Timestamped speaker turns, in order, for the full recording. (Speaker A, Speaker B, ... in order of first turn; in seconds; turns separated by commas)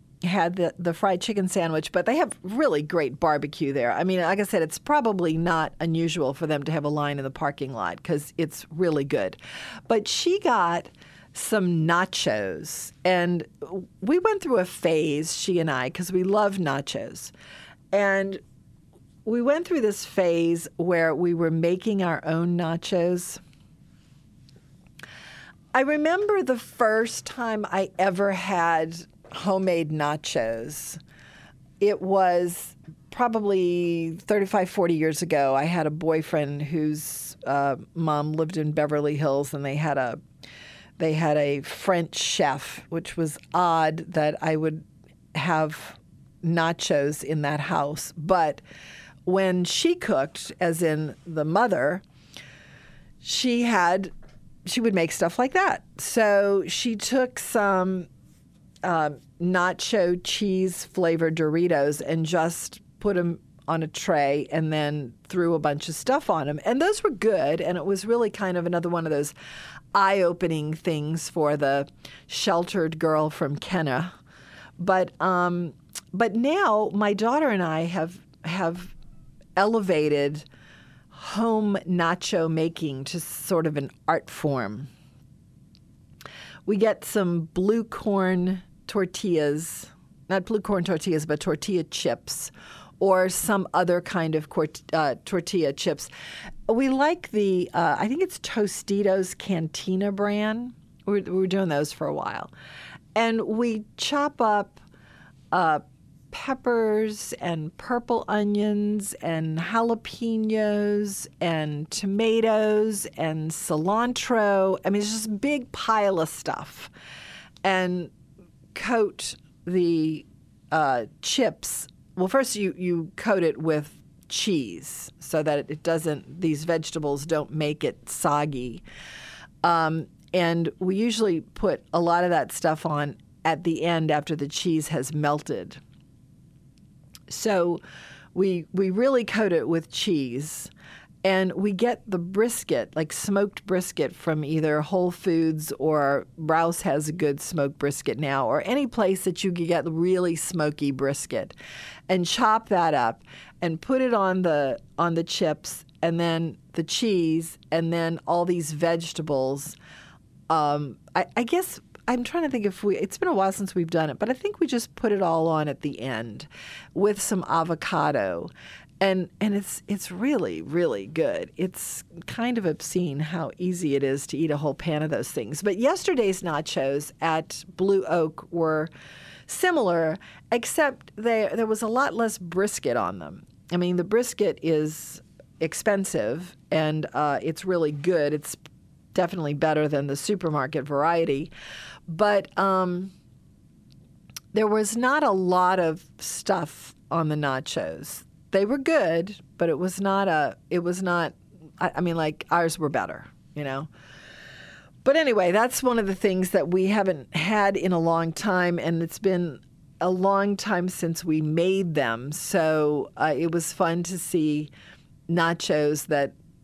Speaker A: 0.2-17.3, Speaker A: 17.9-18.4, Speaker A: 19.2-23.4, Speaker A: 25.7-31.0, Speaker A: 31.8-40.2, Speaker A: 41.0-48.6, Speaker A: 49.3-52.0, Speaker A: 53.2-54.1, Speaker A: 54.7-58.1, Speaker A: 58.8-69.3, Speaker A: 69.9-74.2, Speaker A: 74.8-78.9, Speaker A: 79.6-80.5, Speaker A: 81.1-84.9, Speaker A: 86.7-96.1, Speaker A: 96.7-102.5, Speaker A: 103.2-104.8, Speaker A: 105.5-116.9, Speaker A: 117.6-118.1, Speaker A: 118.7-128.8, Speaker A: 129.6-135.8, Speaker A: 137.3-137.8, Speaker A: 138.3-140.7, Speaker A: 141.2-151.6, Speaker A: 152.1-159.8, Speaker A: 160.5-178.9, Speaker A: 179.5-188.6, Speaker A: 189.1-191.5, Speaker A: 192.1-193.1, Speaker A: 194.5-203.9, Speaker A: 205.0-214.7, Speaker A: 215.3-216.3